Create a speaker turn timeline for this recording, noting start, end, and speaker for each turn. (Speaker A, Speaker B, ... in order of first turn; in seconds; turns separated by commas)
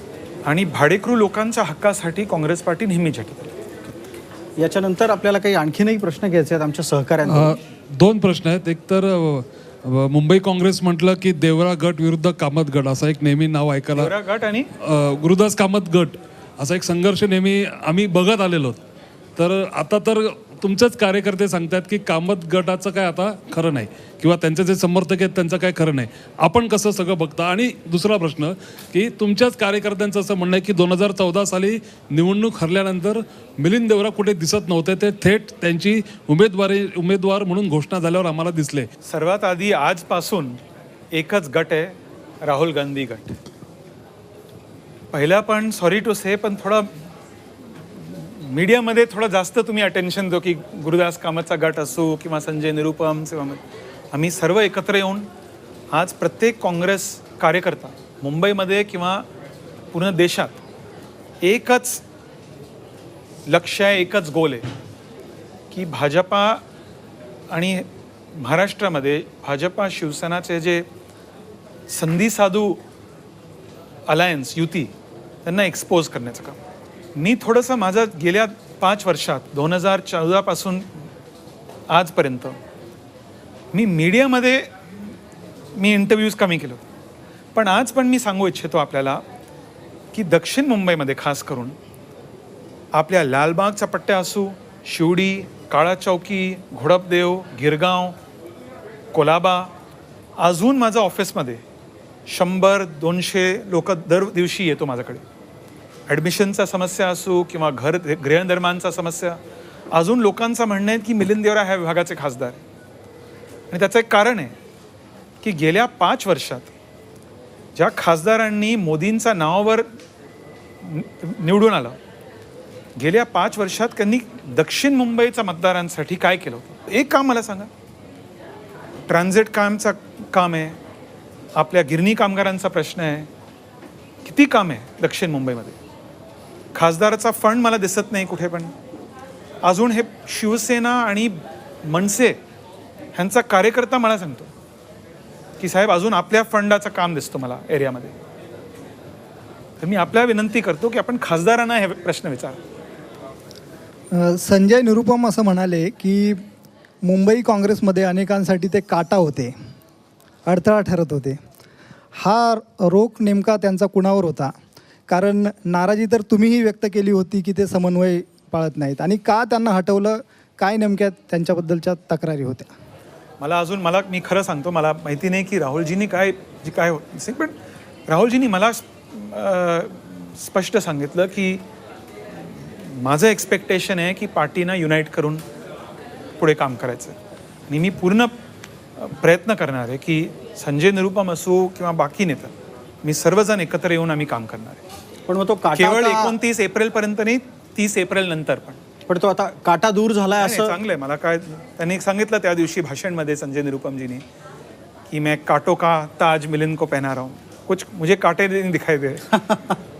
Speaker A: 0.4-3.5, Speaker B: 4.6-7.5, Speaker C: 7.2-14.2, Speaker A: 13.9-14.7, Speaker C: 14.9-18.8, Speaker C: 19.4-38.9, Speaker A: 39.0-40.6, Speaker A: 41.1-43.4, Speaker A: 45.1-46.9, Speaker A: 47.9-53.6, Speaker A: 54.1-55.3, Speaker A: 55.9-59.2, Speaker A: 59.9-60.6, Speaker A: 61.4-62.0, Speaker A: 63.5-64.7, Speaker A: 65.7-66.6, Speaker A: 67.5-70.8, Speaker A: 71.9-72.8, Speaker A: 74.1-74.9, Speaker A: 75.4-76.6, Speaker A: 77.1-80.9, Speaker A: 81.9-82.6, Speaker A: 83.7-85.1, Speaker A: 85.8-86.8, Speaker A: 87.5-89.2, Speaker A: 90.1-91.8, Speaker A: 92.9-98.2, Speaker A: 99.1-99.7, Speaker A: 100.4-101.6, Speaker A: 102.3-105.2, Speaker A: 106.1-109.4, Speaker A: 109.9-112.6, Speaker A: 113.7-114.5, Speaker A: 115.4-116.7, Speaker A: 117.7-119.9, Speaker A: 120.8-122.0, Speaker A: 123.0-127.7, Speaker A: 129.1-130.8, Speaker A: 131.5-133.3, Speaker A: 134.2-135.8, Speaker A: 136.7-138.7, Speaker A: 139.6-141.3, Speaker A: 141.8-142.4, Speaker A: 143.1-144.5, Speaker A: 145.6-148.2, Speaker A: 149.8-152.6, Speaker D: 154.1-156.4, Speaker D: 157.0-159.5, Speaker D: 160.5-161.4, Speaker D: 162.2-164.5, Speaker D: 165.1-172.7, Speaker A: 173.4-177.5, Speaker A: 178.1-181.6, Speaker A: 182.6-185.4, Speaker A: 186.4-187.1, Speaker A: 187.7-188.3, Speaker A: 189.0-192.5, Speaker A: 193.0-194.8, Speaker B: 195.3-196.3, Speaker A: 195.7-198.8, Speaker B: 199.1-200.7, Speaker A: 200.4-204.2, Speaker A: 205.1-209.4